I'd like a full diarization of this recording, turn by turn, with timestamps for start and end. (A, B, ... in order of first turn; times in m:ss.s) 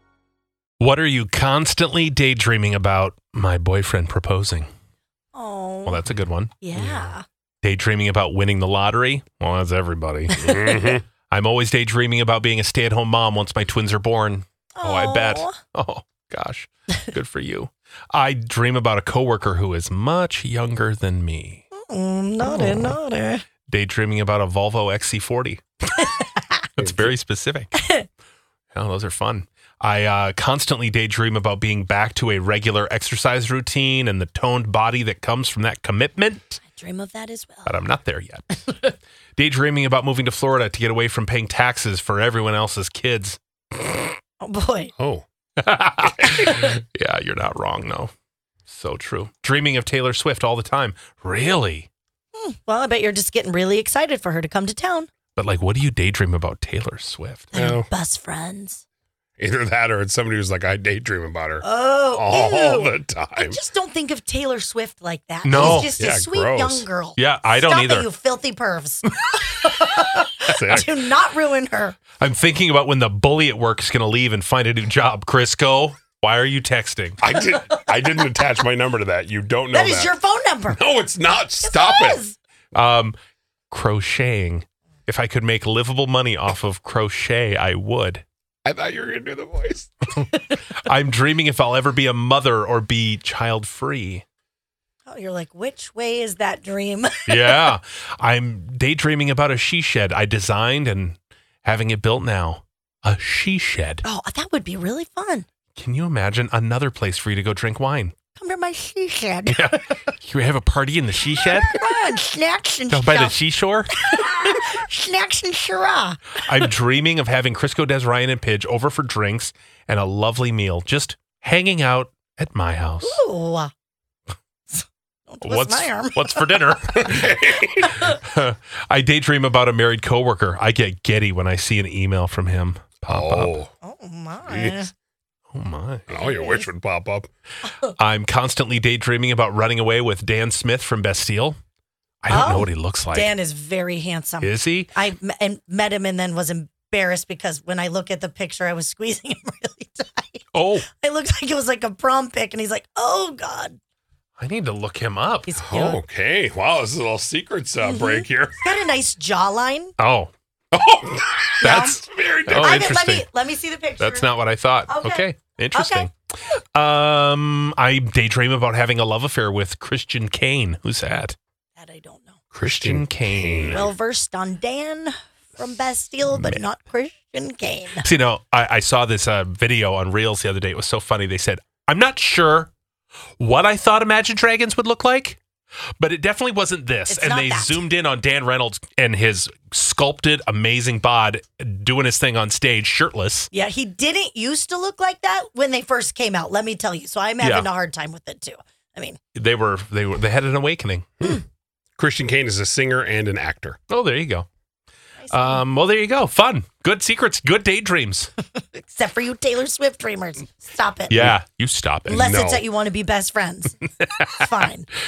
0:00.8-0:04.7 A
0:05.3-0:06.0 B
0:05.9-0:07.0 A
0:06.6-0:07.2 B
0:07.6-0:10.6 A
0:10.3-0:11.0 B
0:10.4-0:11.0 C
0:11.3-0:21.6 A
0:14.8-0:15.6 B
0:21.7-0:23.4 B
0:22.4-0:23.0 A
0:23.7-0:25.6 A
0:26.8-0:27.7 A
0:26.8-0:27.1 C
0:27.8-0:28.1 B
0:28.7-0:36.6 A
0:36.7-0:37.8 B
0:37.7-0:44.0 A
0:44.4-0:44.9 B
0:45.0-0:45.2 C
0:45.6-0:48.1 A
0:46.0-0:46.6 C
0:48.7-0:51.9 A
0:52.4-0:55.1 B
0:55.4-0:57.5 A
0:57.5-0:58.8 B
0:57.6-0:57.9 C
0:59.4-1:03.6 C
1:01.6-1:12.0 B
1:05.4-1:06.0 A
1:05.5-1:06.9 C
1:07.2-1:08.1 A
1:09.3-1:10.8 A
1:10.5-1:10.9 C
1:12.2-1:17.2 A
1:17.2-1:20.2 C
1:19.7-1:20.8 B
1:20.7-1:22.2 C
1:21.6-1:22.4 B
1:22.7-1:23.2 A
1:23.7-1:28.2 A
1:28.6-1:30.2 C
1:30.2-1:34.2 A
1:35.1-1:37.7 B
1:37.3-1:44.0 A
1:44.0-1:45.5 B
1:45.8-1:48.2 A
1:48.4-1:49.7 B
1:49.5-1:51.9 A
1:51.5-1:53.4 B
1:52.9-1:54.3 A
1:54.0-1:56.4 B
1:56.4-2:03.2 A
2:03.0-2:03.7 B
2:04.7-2:06.7 B
2:05.4-2:07.3 A
2:06.9-2:08.0 C
2:07.9-2:13.6 A
2:13.1-2:13.7 C
2:13.8-2:14.9 B
2:14.5-2:14.8 C
2:15.5-2:16.1 A
2:16.1-2:17.3 C
2:16.2-2:16.7 B
2:17.6-2:18.0 B
2:18.0-2:21.6 A
2:22.2-2:23.3 A
2:22.3-2:33.8 B
2:24.4-2:24.9 A
2:30.5-2:30.9 A
2:34.4-2:35.6 A
2:35.5-2:36.0 B
2:35.6-2:38.6 C
2:37.8-2:39.9 B
2:40.0-2:40.3 A
2:40.7-2:42.9 C
2:41.6-2:42.0 B
2:41.6-2:43.3 A
2:42.6-2:44.3 B
2:44.0-2:51.4 A
2:44.9-2:46.1 B
2:51.8-2:52.4 B
2:52.5-2:53.9 A
2:52.6-2:53.9 C
2:53.7-2:58.0 B
2:56.3-2:56.6 A
2:58.0-3:02.7 A
3:03.4-3:05.4 A
3:06.0-3:13.5 A
3:07.1-3:07.8 B
3:13.5-3:19.2 B
3:17.4-3:17.7 A
3:19.4-3:21.3 A
3:22.0-3:23.8 C
3:23.9-3:24.5 A
3:25.2-3:25.6 B
3:25.3-3:28.3 A
3:28.6-3:31.3 B
3:31.1-3:32.3 A
3:32.1-3:34.9 B
3:32.1-3:32.6 C
3:34.0-3:34.5 A